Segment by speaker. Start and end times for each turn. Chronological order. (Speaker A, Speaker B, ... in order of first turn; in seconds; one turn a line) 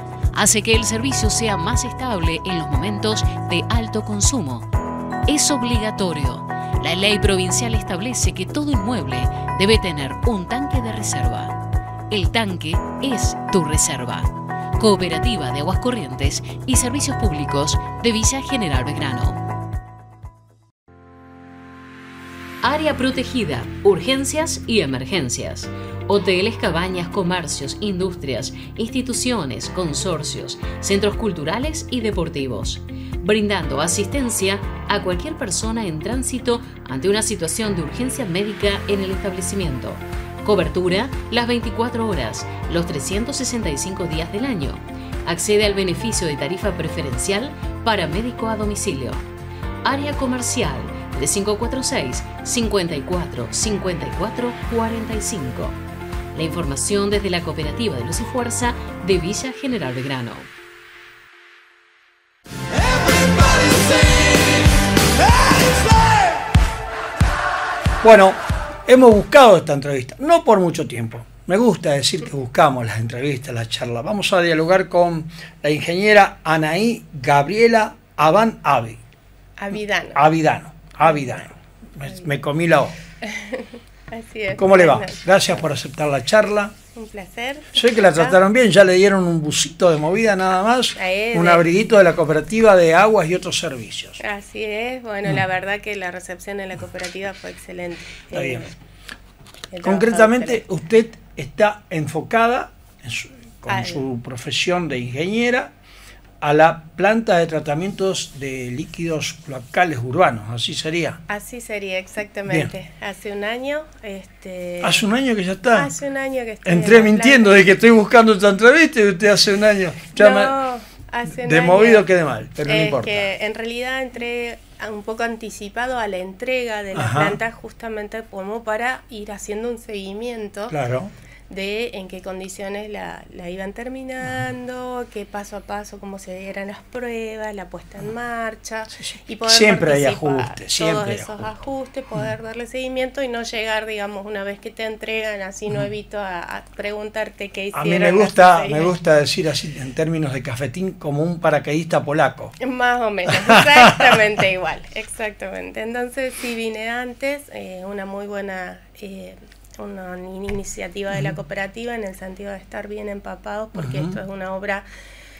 Speaker A: 0.3-4.7
Speaker A: 5.3-11.6
Speaker A: 12.1-19.4
Speaker A: 22.6-49.2
Speaker A: 49.8-55.8
Speaker A: 56.3-60.5
Speaker B: 68.0-79.0
Speaker C: 79.6-80.3
Speaker B: 80.1-82.9
Speaker C: 81.0-81.4
Speaker C: 82.0-82.3
Speaker C: 83.2-85.7
Speaker B: 84.5-86.8
Speaker C: 86.9-88.4
Speaker B: 87.7-94.2
Speaker C: 91.0-91.7
Speaker C: 94.2-98.7
Speaker B: 98.3-98.7
Speaker C: 99.7-100.6
Speaker B: 99.8-105.7
Speaker C: 103.7-104.0
Speaker B: 106.4-111.2
Speaker C: 111.3-115.0
Speaker B: 112.5-112.7
Speaker B: 114.8-115.9
Speaker C: 115.7-117.6
Speaker B: 116.6-120.5
Speaker C: 120.1-122.1
Speaker B: 121.3-123.3
Speaker C: 122.6-130.8
Speaker B: 126.9-127.4
Speaker B: 130.7-131.1
Speaker C: 131.5-148.9
Speaker B: 138.9-141.5
Speaker B: 147.7-152.5
Speaker C: 152.6-164.8
Speaker B: 153.4-154.2
Speaker B: 163.8-164.2